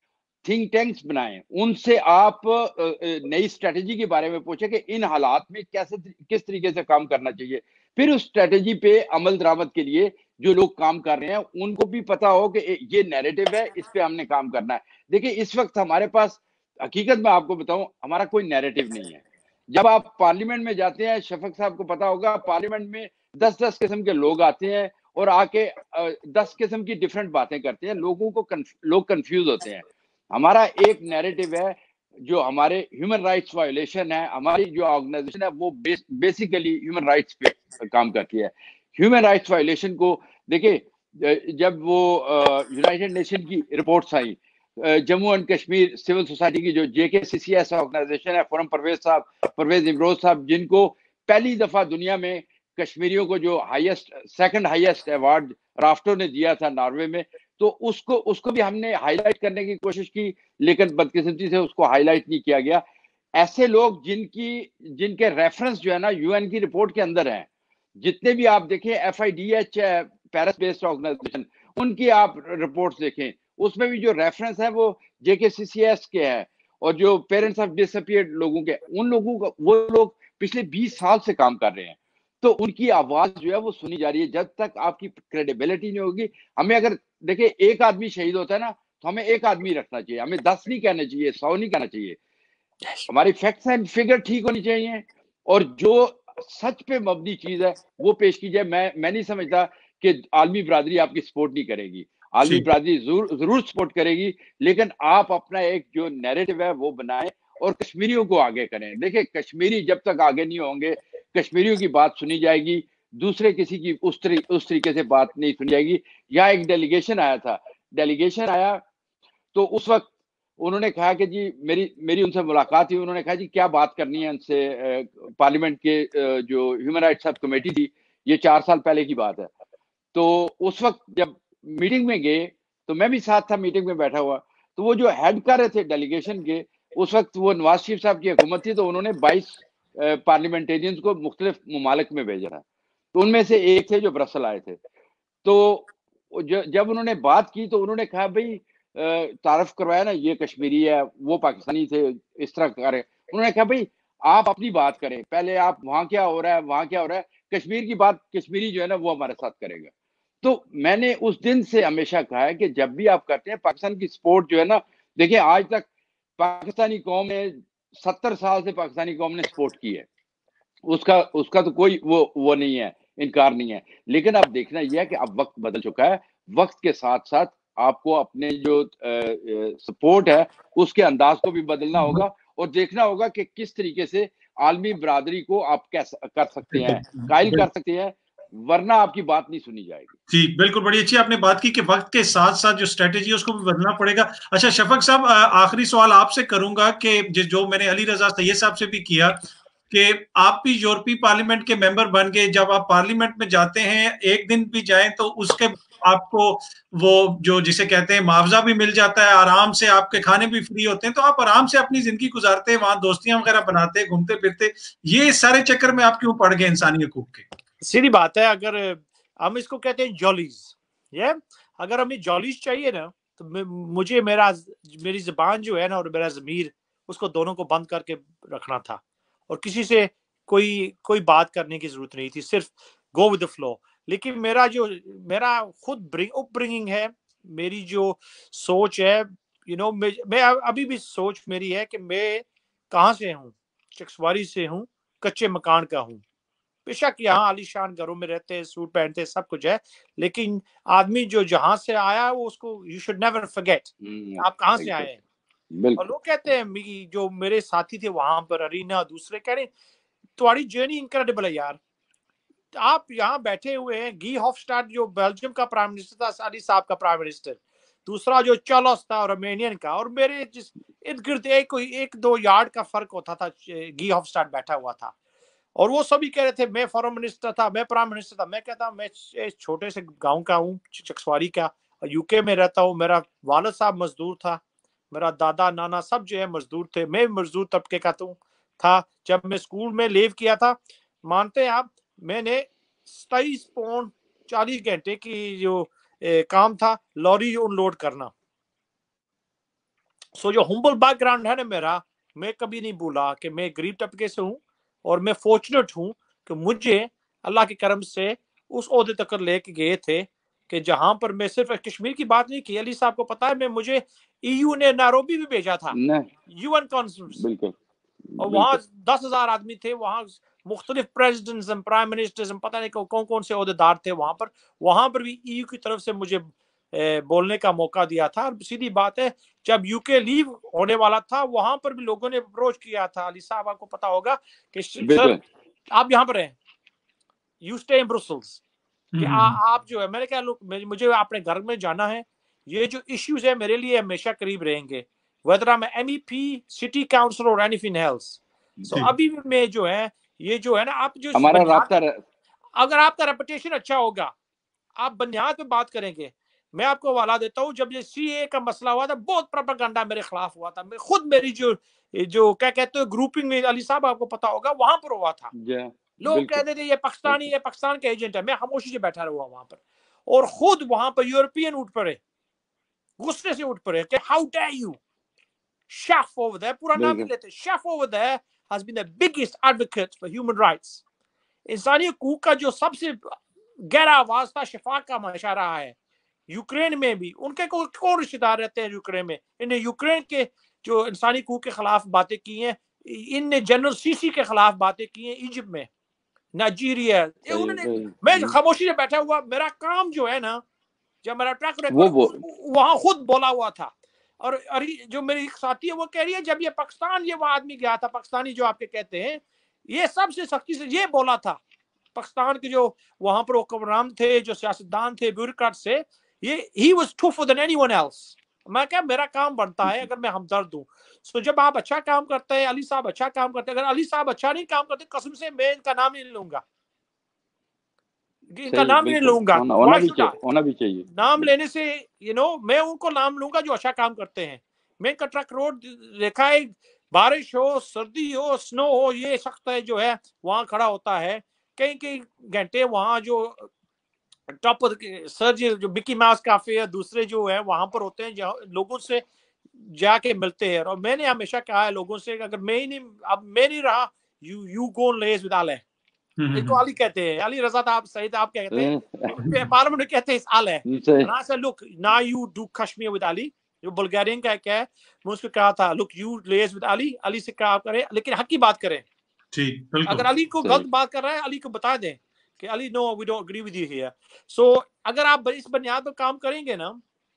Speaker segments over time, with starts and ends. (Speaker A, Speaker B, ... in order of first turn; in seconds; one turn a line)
Speaker A: 0.4-62.8
Speaker A: 63.4-67.5
Speaker A: 68.0-92.2
Speaker A: 93.1-118.8
Speaker A: 119.5-120.0
Speaker A: 120.6-129.5
Speaker A: 130.1-142.6
Speaker A: 143.1-144.8
Speaker A: 145.4-159.9
Speaker A: 160.4-165.9
Speaker A: 166.4-170.1
Speaker A: 170.9-190.1
Speaker B: 181.9-182.2
Speaker B: 186.7-187.7
Speaker B: 190.3-199.4
Speaker B: 199.9-217.4
Speaker C: 217.8-246.2
Speaker C: 246.8-255.2
Speaker A: 254.0-255.1
Speaker A: 255.7-256.0
Speaker C: 256.0-259.7
Speaker C: 260.4-261.8
Speaker C: 262.8-275.1
Speaker C: 275.8-298.3
Speaker C: 300.4-315.9
Speaker A: 315.9-316.3
Speaker C: 316.5-317.4
Speaker A: 317.4-317.7
Speaker A: 318.3-318.8
Speaker C: 318.4-335.3
Speaker A: 335.0-335.4
Speaker C: 335.9-336.6
Speaker C: 337.6-338.6
Speaker B: 339.1-339.6
Speaker C: 339.2-351.9
Speaker A: 351.3-352.2
Speaker C: 352.8-354.3
Speaker C: 355.0-365.5
Speaker A: 365.5-366.6
Speaker C: 366.2-372.2
Speaker C: 373.2-375.0
Speaker C: 375.9-381.0
Speaker A: 376.9-377.3
Speaker C: 381.7-385.9
Speaker C: 386.5-395.9
Speaker C: 396.6-400.6
Speaker A: 397.5-398.5
Speaker C: 401.2-411.6
Speaker A: 401.9-402.4
Speaker C: 412.1-426.6
Speaker C: 428.5-430.4
Speaker A: 428.7-431.5
Speaker C: 431.1-443.7
Speaker C: 444.5-449.2
Speaker C: 449.8-455.8
Speaker B: 456.4-456.8
Speaker C: 456.5-469.0
Speaker A: 458.7-459.3
Speaker A: 460.9-461.3
Speaker B: 469.5-470.3
Speaker C: 470.1-477.0